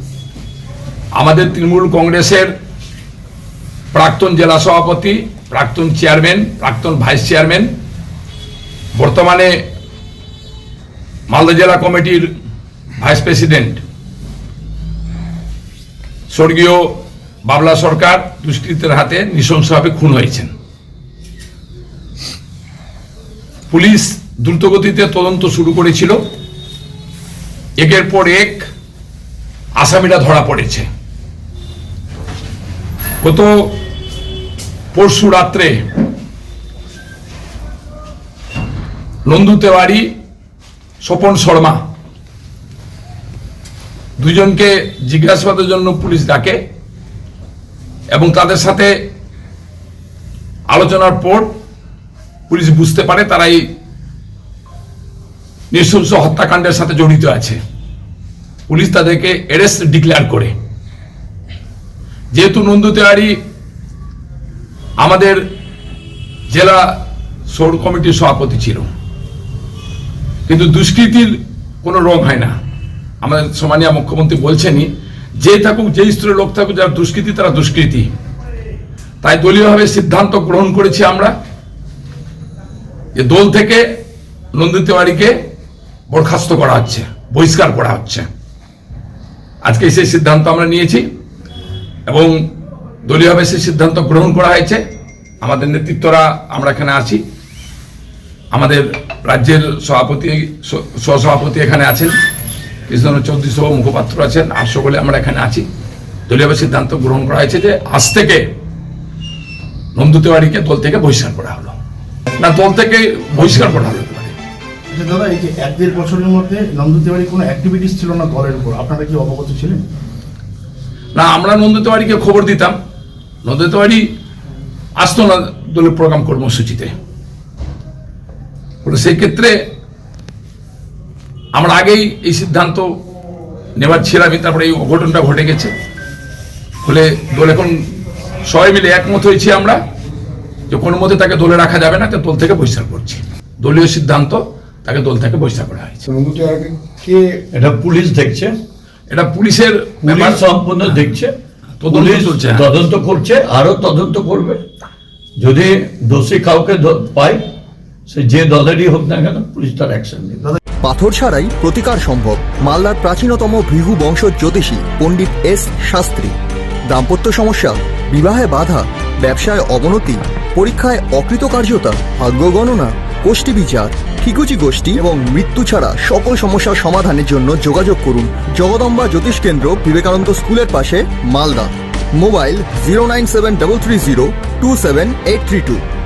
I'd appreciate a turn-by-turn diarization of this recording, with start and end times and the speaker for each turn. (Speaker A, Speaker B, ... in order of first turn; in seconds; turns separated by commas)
Speaker A: 1.2-2.5, Speaker A: 3.9-7.7, Speaker A: 8.9-9.6, Speaker A: 11.3-12.3, Speaker A: 13.0-13.8, Speaker A: 16.3-16.9, Speaker A: 17.5-20.5, Speaker A: 23.7-26.2, Speaker A: 27.8-28.7, Speaker A: 29.8-30.9, Speaker A: 33.2-33.7, Speaker A: 34.9-35.8, Speaker A: 39.3-40.0, Speaker A: 41.0-41.8, Speaker A: 44.2-46.6, Speaker A: 48.1-48.9, Speaker A: 50.7-51.5, Speaker A: 52.5-53.6, Speaker A: 55.7-57.6, Speaker A: 58.7-60.5, Speaker A: 62.3-63.3, Speaker A: 65.0-65.4, Speaker A: 66.5-66.8, Speaker A: 67.5-68.9, Speaker A: 70.5-72.5, Speaker A: 73.2-78.1, Speaker A: 79.2-81.3, Speaker A: 83.2-83.8, Speaker A: 84.5-85.3, Speaker A: 86.1-88.3, Speaker A: 89.6-91.0, Speaker A: 92.1-92.4, Speaker A: 93.1-94.8, Speaker A: 95.4-97.2, Speaker A: 98.5-102.2, Speaker A: 102.9-105.7, Speaker A: 106.3-108.4, Speaker A: 109.9-111.8, Speaker A: 112.4-114.3, Speaker B: 114.9-119.8, Speaker A: 121.2-122.8, Speaker A: 123.4-124.0, Speaker A: 125.0-126.9, Speaker A: 128.8-129.6, Speaker A: 131.5-132.9, Speaker A: 133.8-135.7, Speaker A: 136.8-137.8, Speaker A: 138.5-139.8, Speaker A: 140.7-146.0, Speaker C: 147.5-148.5, Speaker A: 149.1-150.4, Speaker C: 150.0-151.3, Speaker A: 151.8-152.7, Speaker C: 151.9-154.6, Speaker C: 155.4-157.4, Speaker C: 158.1-160.5, Speaker D: 160.8-166.3, Speaker D: 166.9-185.8